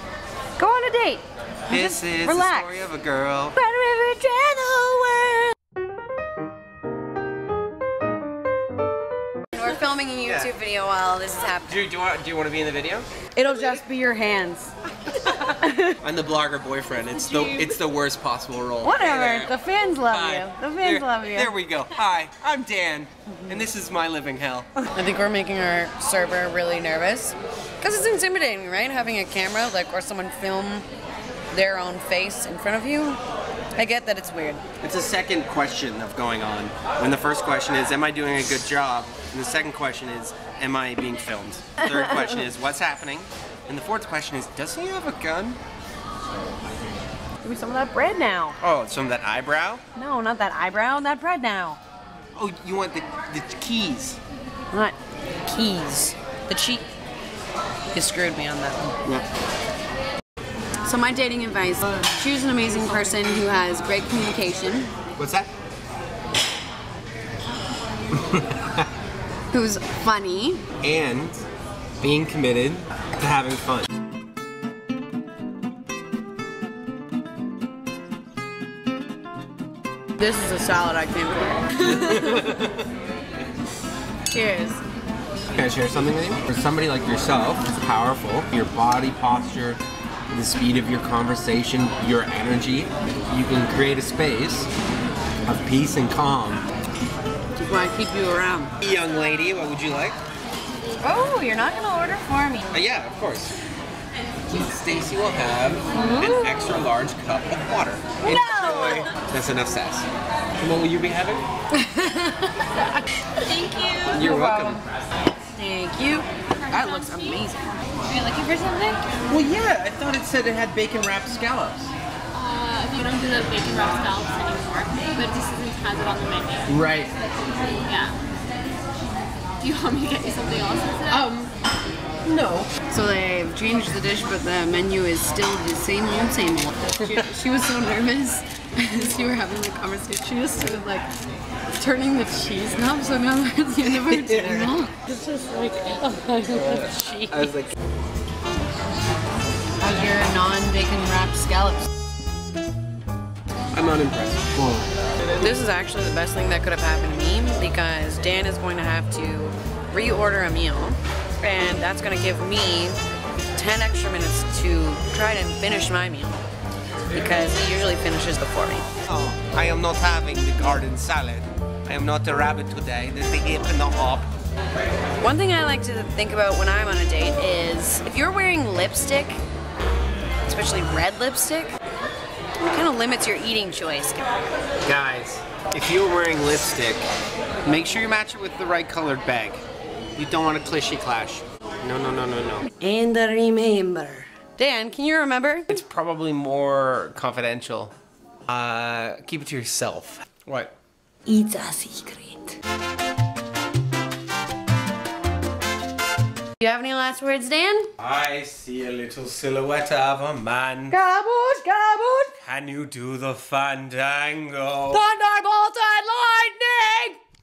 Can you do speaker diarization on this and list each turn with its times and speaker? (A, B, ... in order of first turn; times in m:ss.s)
0:00.6-0:02.8 A
0:01.7-0:03.6 B
0:03.5-0:05.5 A
0:09.5-0:11.8 A
0:10.2-0:10.5 B
0:11.7-0:13.1 B
0:13.3-0:16.0 A
0:15.4-0:19.5 B
0:17.2-0:17.5 C
0:18.8-0:21.5 A
0:20.1-0:24.7 B
0:23.3-0:23.6 A
0:24.8-0:30.8 A
0:31.5-0:33.2 A
0:33.8-0:34.6 A
0:34.8-0:45.6 B
0:47.4-0:48.6 A
0:48.6-0:49.8 B
0:50.0-0:51.8 A
0:52.3-0:54.2 B
0:54.7-0:56.8 A
0:57.9-0:59.0 A
1:00.8-1:04.9 A
1:05.2-1:05.5 B
1:08.1-1:08.9 B
1:09.5-1:10.6 A
1:10.8-1:11.4 B
1:12.0-1:13.9 B
1:20.2-1:22.6 A
1:21.8-1:22.9 B
1:24.3-1:24.8 A
1:25.5-1:29.8 B
1:30.3-1:34.7 B
1:35.4-1:36.6 B
1:37.6-1:38.7 A
1:38.8-1:40.2 B
1:41.0-1:42.7 A
1:42.7-1:43.5 B
1:44.5-1:51.4 B
1:45.9-1:46.5 A
1:48.2-1:49.1 A
1:51.7-1:53.0 A
1:53.4-1:54.2 C
1:54.1-1:54.8 A
1:54.1-1:54.8 B
1:55.4-1:59.0 A
1:56.6-1:57.5 C
1:59.3-2:01.9 B
2:02.3-2:06.7 C
2:06.7-2:07.1 B
2:07.8-2:08.2 C
2:09.6-2:11.3 C
2:11.1-2:11.5 B
2:12.2-2:12.7 B
2:12.9-2:21.1 A
2:21.8-2:27.5 A
2:24.0-2:24.7 B
2:26.5-2:27.7 B
2:29.8-2:31.9 A
2:33.7-2:34.8 B
2:35.4-2:43.0 A
2:43.5-2:46.4 A
2:47.1-2:48.9 A
2:49.0-2:54.3 B
2:55.2-2:59.4 A
3:00.4-3:01.7 A
3:02.6-3:04.3 A
3:04.8-3:07.0 B
3:07.6-3:09.6 B
3:10.1-3:12.6 B
3:12.8-3:15.8 A
3:15.7-3:17.9 B
3:18.4-3:20.7 B
3:21.3-3:22.6 A
3:26.6-3:27.9 A
3:28.0-3:31.0 B
3:30.9-3:32.3 A
3:32.4-3:35.0 B
3:34.9-3:37.2 A